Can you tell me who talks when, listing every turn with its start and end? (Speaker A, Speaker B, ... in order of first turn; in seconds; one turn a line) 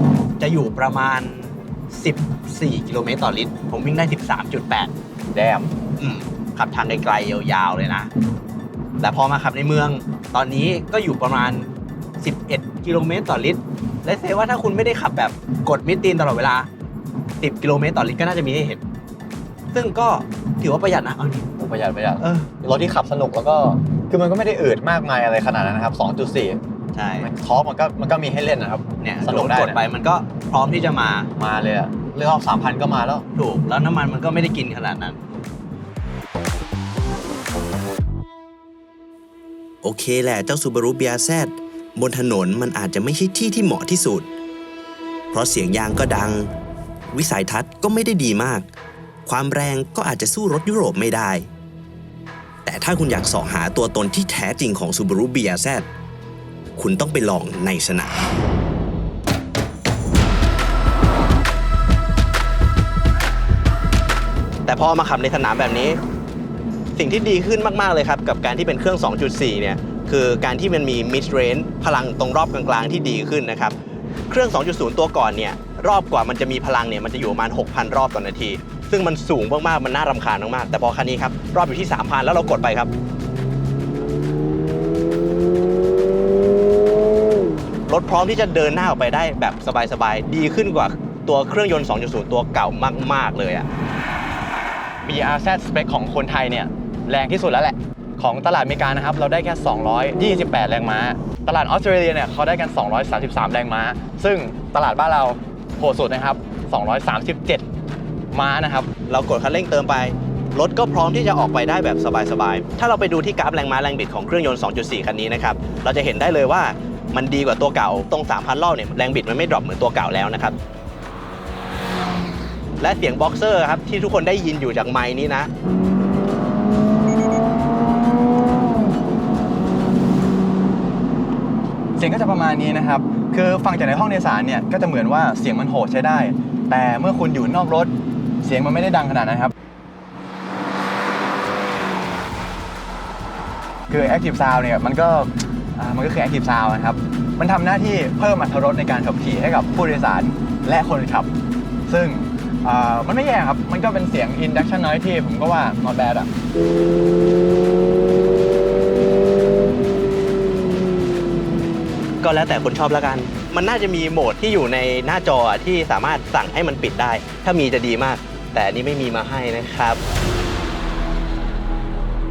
Speaker A: 0.4-4.9
Speaker B: 5.3-5.7
Speaker A: 6.0-8.1
Speaker A: 9.0-16.7
Speaker A: 17.4-18.8
Speaker A: 19.7-21.5
Speaker B: 21.6-26.6
Speaker A: 22.2-22.6
Speaker A: 26.9-27.3
Speaker B: 27.2-29.8
Speaker A: 29.0-31.3
Speaker B: 31.4-33.2
Speaker A: 33.3-35.2
Speaker C: 39.8-44.3
Speaker C: 45.3-46.5
Speaker C: 47.1-48.7
Speaker C: 49.2-51.5
Speaker C: 52.6-55.9
Speaker C: 56.8-58.3
Speaker A: 64.7-66.0
Speaker A: 67.0-73.8
Speaker A: 74.3-82.9
Speaker A: 87.9-93.7
Speaker B: 95.0-107.6
Speaker B: 108.3-108.9
Speaker A: 109.1-120.5
Speaker A: 122.8-125.5
Speaker B: 131.9-139.5
Speaker B: 143.9-151.3
Speaker B: 151.9-156.3
Speaker A: 162.2-170.0